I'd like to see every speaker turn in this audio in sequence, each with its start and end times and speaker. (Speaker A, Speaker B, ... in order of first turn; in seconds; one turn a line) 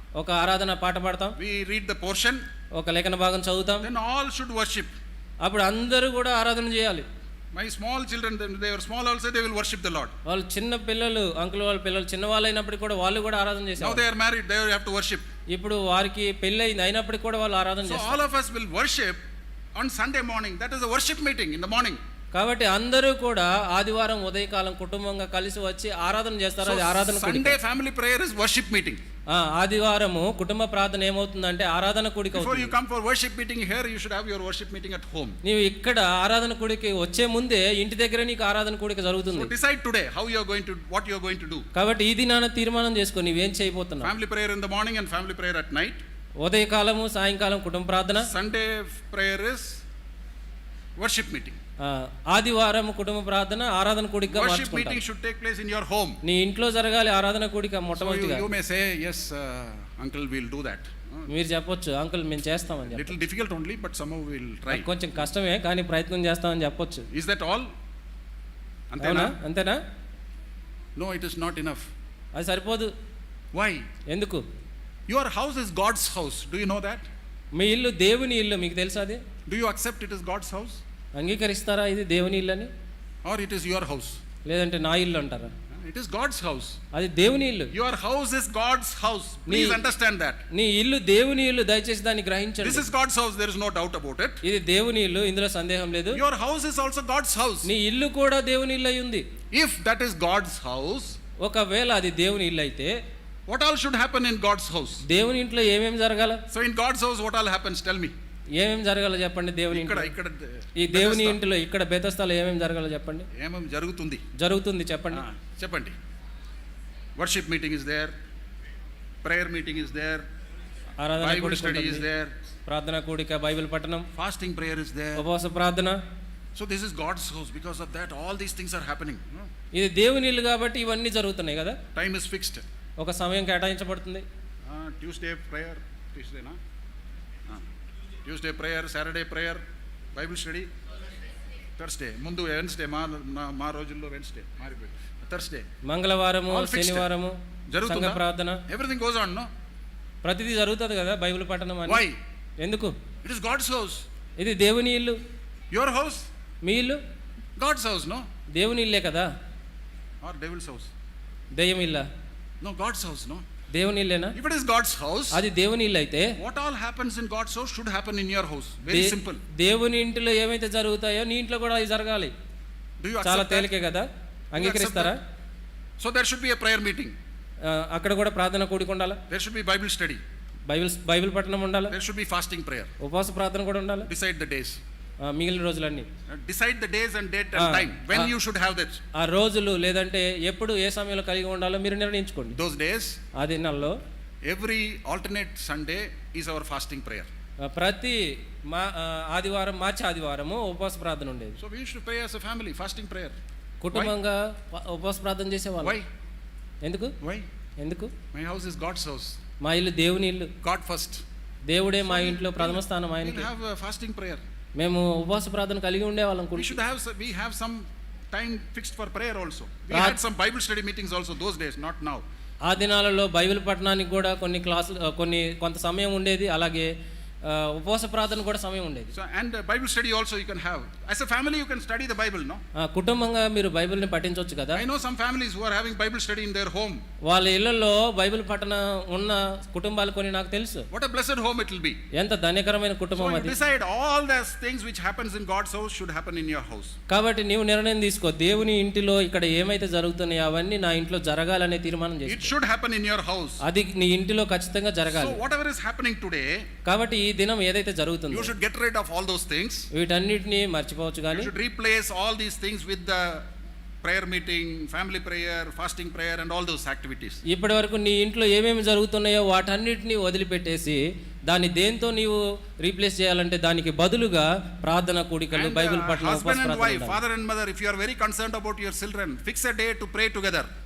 Speaker A: 0.2-1.4
Speaker B: 1.4-2.4
Speaker A: 2.8-3.9
Speaker B: 3.8-4.9
Speaker A: 5.4-7.0
Speaker B: 7.5-10.1
Speaker A: 10.3-14.0
Speaker B: 13.8-15.3
Speaker A: 15.5-18.2
Speaker B: 17.8-19.2
Speaker B: 19.8-22.0
Speaker A: 22.4-27.6
Speaker B: 26.6-29.0
Speaker A: 29.3-32.7
Speaker B: 32.3-35.4
Speaker A: 35.4-39.5
Speaker B: 39.3-41.7
Speaker A: 41.8-44.1
Speaker B: 44.0-46.0
Speaker A: 46.4-48.3
Speaker B: 48.2-49.8
Speaker B: 51.0-51.6
Speaker A: 51.8-55.0
Speaker B: 54.3-56.2
Speaker A: 56.2-58.5
Speaker B: 58.0-61.3
Speaker A: 61.3-63.1
Speaker B: 62.9-65.2
Speaker A: 64.7-67.1
Speaker B: 67.1-67.7
Speaker B: 68.9-69.4
Speaker A: 69.0-69.8
Speaker B: 71.0-71.9
Speaker A: 72.4-72.9
Speaker B: 73.5-73.9
Speaker A: 74.1-74.4
Speaker B: 75.1-77.1
Speaker A: 77.5-79.2
Speaker B: 79.5-80.8
Speaker A: 81.2-82.7
Speaker B: 83.2-84.2
Speaker A: 84.5-85.5
Speaker B: 85.7-86.8
Speaker A: 86.9-87.7
Speaker B: 87.7-90.4
Speaker A: 89.5-89.8
Speaker A: 90.5-92.8
Speaker B: 92.6-94.4
Speaker A: 94.4-96.2
Speaker B: 96.1-97.7
Speaker A: 97.7-99.2
Speaker B: 99.5-101.2
Speaker A: 101.4-102.9
Speaker B: 103.5-105.0
Speaker A: 105.0-106.4
Speaker B: 106.5-108.1
Speaker A: 108.6-110.1
Speaker B: 109.7-111.4
Speaker A: 110.8-113.3
Speaker B: 113.4-114.2
Speaker A: 114.4-115.2
Speaker B: 115.1-116.0
Speaker B: 117.2-118.1
Speaker B: 119.2-120.2
Speaker A: 121.0-122.0
Speaker B: 121.2-122.3
Speaker A: 122.7-124.1
Speaker B: 124.1-125.2
Speaker A: 125.2-126.0
Speaker B: 126.5-129.5
Speaker A: 129.7-131.8
Speaker B: 131.9-132.6
Speaker A: 133.0-134.2
Speaker B: 134.7-136.6
Speaker B: 138.2-139.6
Speaker B: 140.1-140.7
Speaker B: 141.8-145.7
Speaker A: 145.8-148.6
Speaker B: 146.5-147.1
Speaker B: 147.7-149.5
Speaker A: 150.2-152.0
Speaker B: 151.8-152.2
Speaker A: 152.6-152.9
Speaker B: 153.2-154.0
Speaker A: 154.4-155.2
Speaker B: 155.7-156.3
Speaker A: 156.6-157.0
Speaker B: 157.6-158.3
Speaker A: 158.5-159.3
Speaker B: 160.2-160.9
Speaker A: 161.5-162.1
Speaker B: 162.6-163.4
Speaker A: 163.7-164.3
Speaker B: 164.3-165.4
Speaker A: 165.3-166.3
Speaker B: 166.4-169.4
Speaker A: 168.9-172.3
Speaker B: 173.0-173.7
Speaker A: 173.2-175.2
Speaker B: 174.5-175.1
Speaker B: 176.0-177.1
Speaker A: 177.6-179.2
Speaker B: 179.3-180.2
Speaker A: 180.7-181.9
Speaker B: 181.9-182.9
Speaker A: 183.0-184.1
Speaker B: 184.0-184.8
Speaker A: 185.2-186.1
Speaker B: 186.3-189.0
Speaker A: 187.6-188.3
Speaker A: 189.1-192.6
Speaker B: 192.5-193.2
Speaker A: 193.3-193.9
Speaker B: 194.4-197.3
Speaker A: 197.6-201.6
Speaker B: 201.6-203.3
Speaker A: 203.8-206.0
Speaker B: 205.8-206.1
Speaker A: 206.8-207.1
Speaker B: 207.2-207.5
Speaker A: 207.8-208.1
Speaker B: 208.3-209.4
Speaker A: 209.6-210.5
Speaker B: 210.6-211.2
Speaker A: 211.7-213.5
Speaker B: 212.0-214.4
Speaker A: 214.8-216.8
Speaker B: 216.5-222.2
Speaker A: 219.9-220.2
Speaker A: 222.7-226.9
Speaker A: 227.4-229.1
Speaker B: 229.1-232.6
Speaker A: 232.8-234.8
Speaker B: 234.7-237.0
Speaker A: 237.2-240.9
Speaker B: 240.9-242.0
Speaker A: 242.1-243.5
Speaker B: 243.1-247.0
Speaker A: 247.1-252.5
Speaker B: 252.2-253.6
Speaker A: 253.6-255.4
Speaker B: 255.1-256.7
Speaker A: 256.9-258.5
Speaker B: 258.3-259.9
Speaker A: 259.9-261.5
Speaker B: 261.3-263.5
Speaker B: 264.0-267.4
Speaker A: 267.5-277.2
Speaker B: 275.5-280.7